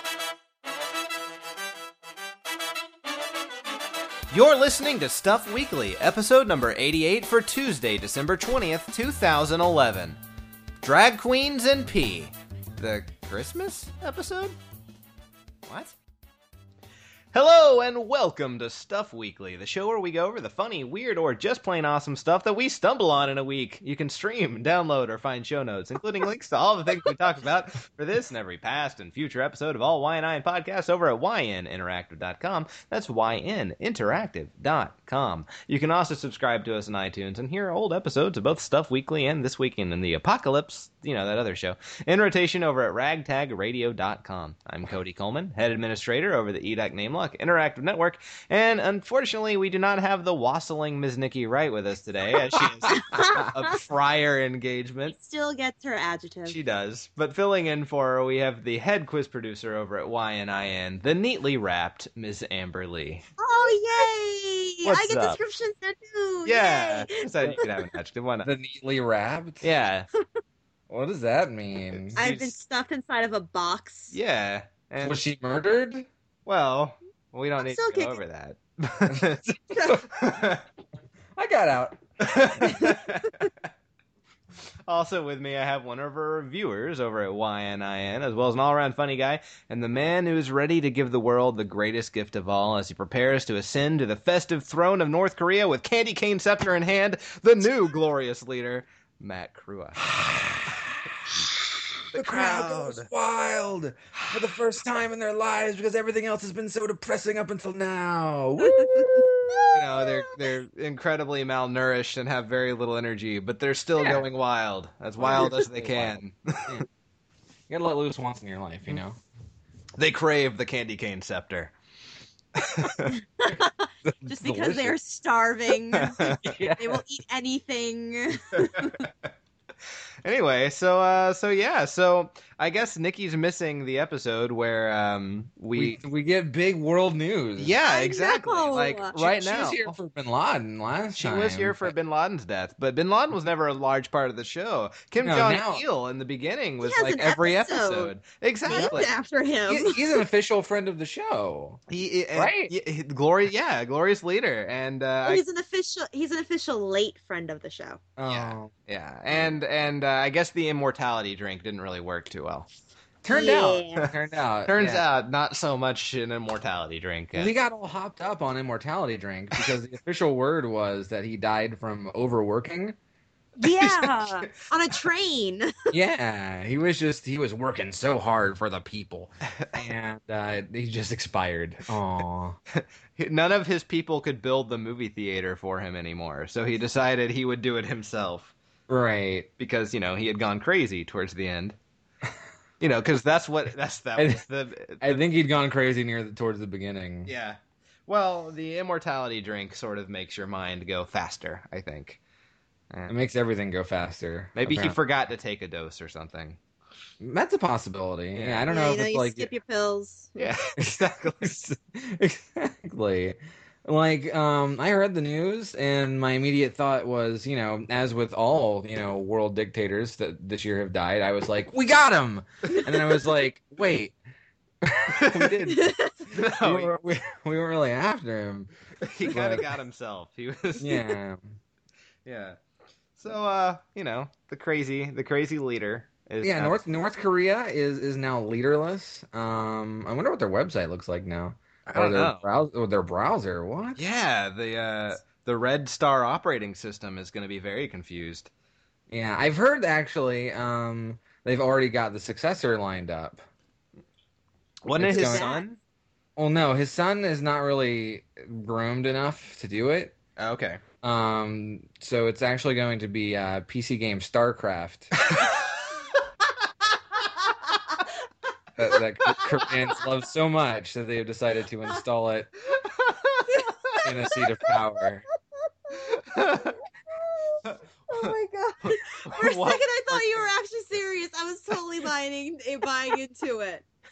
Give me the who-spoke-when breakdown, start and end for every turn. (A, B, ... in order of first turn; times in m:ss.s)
0:04.3-0:10.2 A
0:10.8-0:14.6 A
0:15.6-0:15.9 A
0:17.3-0:55.1 A
0:52.9-0:53.5 B
0:55.1-0:56.6 B
0:56.4-1:03.2 A
1:03.4-1:07.7 B
1:04.8-1:05.4 A
1:06.4-1:08.5 A
1:08.4-1:09.6 C
1:09.6-1:10.1 A
1:10.9-1:12.2 C
1:11.9-1:12.6 A
1:12.2-1:14.1 B
1:14.1-1:15.2 A
1:15.0-1:16.1 C
1:16.4-1:19.4 A
1:17.6-1:18.2 B
1:19.1-1:20.5 C
1:19.7-1:20.0 B
1:20.1-1:20.6 A
1:21.3-1:22.9 C
1:22.2-1:23.5 A
1:24.9-1:40.0 A
1:40.1-1:40.9 C
1:42.1-1:43.1 A
1:42.1-1:50.0 C
1:44.2-1:44.4 A
1:48.6-1:49.7 B
1:49.7-1:56.8 A
1:55.2-1:56.8 C
1:55.2-1:55.6 B
1:57.7-1:59.2 C
2:00.0-2:01.7 A
2:02.5-2:03.2 A
2:03.1-2:06.3 B
2:04.0-2:05.0 C
2:05.9-2:06.5 A
2:06.1-2:07.0 C
2:06.8-2:09.0 B
2:08.5-2:09.1 A
2:10.2-2:16.0 A
2:15.7-2:17.8 C
2:17.6-2:20.0 A
2:17.8-2:19.2 B
2:19.2-2:21.9 C
2:21.2-2:29.1 A
2:25.2-2:25.8 C
2:26.8-2:28.1 B
2:28.6-2:30.2 B
2:28.7-2:29.0 C
2:29.7-2:31.8 C
2:31.9-2:35.4 A
2:32.3-2:32.7 C
2:35.2-2:38.0 B
2:38.2-2:38.7 C
2:38.3-2:42.7 A
2:43.2-2:45.0 C
2:43.3-2:44.1 B
2:44.7-2:47.5 A
2:47.3-2:53.0 C
2:53.6-2:55.7 B
2:53.7-2:54.7 A
2:55.9-3:02.6 C
3:02.7-3:08.5 A
3:08.9-3:09.5 C
3:09.6-3:11.8 A
3:12.8-3:15.2 A
3:15.0-3:17.3 C
3:17.2-3:22.2 A
3:23.1-3:25.0 C
3:24.5-3:26.6 A
3:27.2-3:29.5 C
3:28.3-3:28.7 A
3:28.7-3:30.4 B
3:30.4-3:31.5 A
3:30.8-3:44.1 C
3:42.7-3:43.3 B
3:44.8-3:48.7 C
3:45.1-3:45.5 A
3:45.7-3:46.1 B
3:46.3-3:46.9 A
3:49.0-3:51.1 A
3:49.2-3:49.6 C
3:50.8-3:51.6 C
3:52.2-3:52.6 A
3:53.2-3:56.8 A
3:56.4-4:04.0 C
4:01.8-4:02.4 A
4:04.0-4:08.5 A
4:09.1-4:13.4 C
4:14.8-4:15.8 A
4:14.9-4:15.4 C
4:15.0-4:15.6 B
4:16.4-4:20.1 C
4:20.4-4:20.8 A
4:21.0-4:25.1 C
4:25.2-4:25.7 A
4:28.8-4:32.5 C
4:29.3-4:29.7 A
4:32.8-4:34.0 A
4:33.5-4:34.8 B
4:34.0-4:35.2 C
4:35.6-4:43.8 B
4:36.0-4:36.8 A
4:37.6-4:38.3 A
4:38.9-4:40.5 A